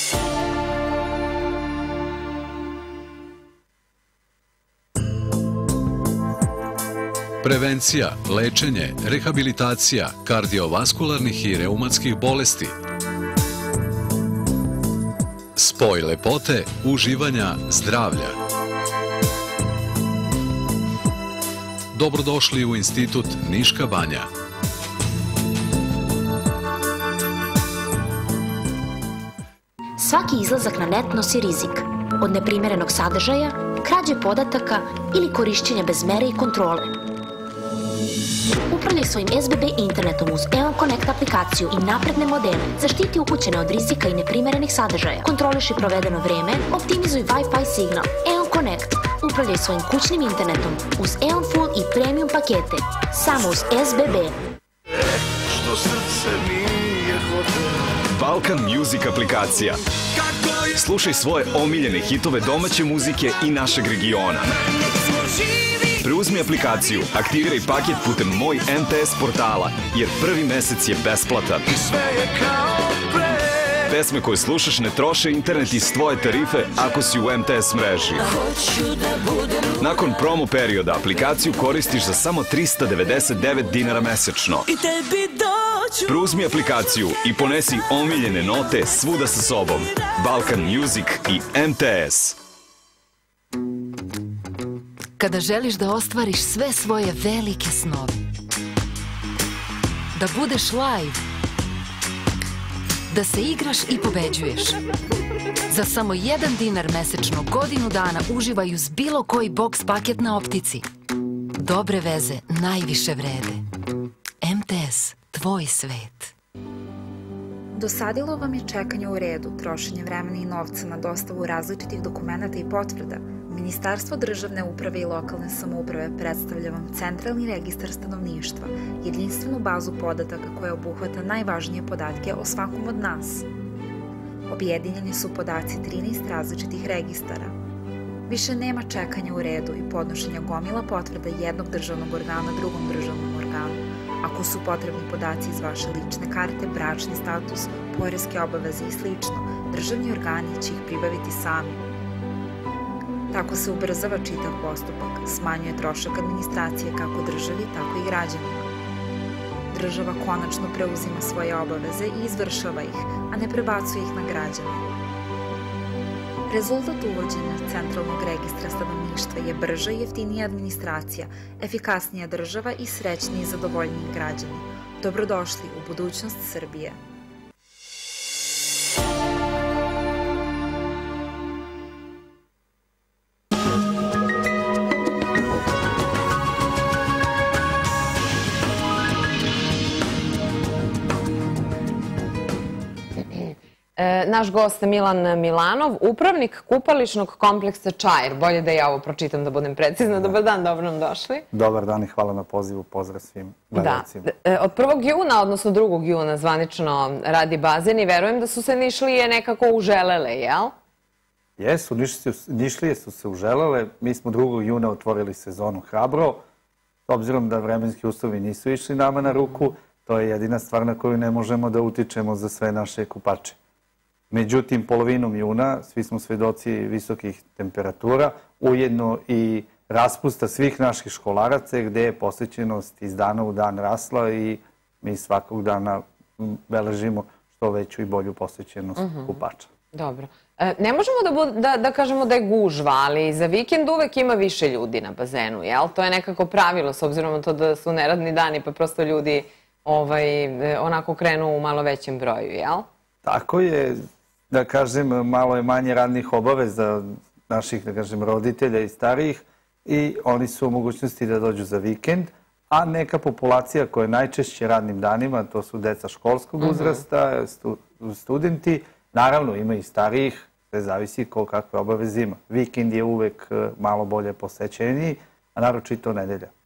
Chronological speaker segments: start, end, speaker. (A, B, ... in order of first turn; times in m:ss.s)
0:07.4-0:12.8 A
0:15.6-0:18.4 A
0:21.9-0:24.3 A
0:30.0-0:36.9 B
0:38.7-0:54.3 B
0:55.7-0:56.9 C
0:58.1-0:59.8 C
1:00.7-1:04.5 C
1:05.8-1:12.2 C
1:13.8-1:18.3 C
1:19.7-1:24.7 C
1:26.0-1:32.4 C
1:35.2-1:38.2 D
1:40.1-1:41.2 D
1:43.1-1:44.8 D
1:45.7-1:50.8 D
1:51.6-1:53.6 D
1:54.4-1:56.3 D
1:57.7-2:13.4 E
2:14.5-2:17.6 E
2:18.3-2:31.8 E
2:33.3-2:38.7 E
2:39.7-2:44.9 E
2:46.5-2:57.0 E
3:13.3-3:21.4 F
3:21.5-3:24.3 G
3:23.8-3:30.7 F
3:31.6-3:36.4 G
3:37.1-3:43.6 G
3:44.3-3:59.7 G
3:59.0-3:59.4 F
3:59.9-4:12.9 F
4:13.2-4:36.5 G
4:26.6-4:27.0 F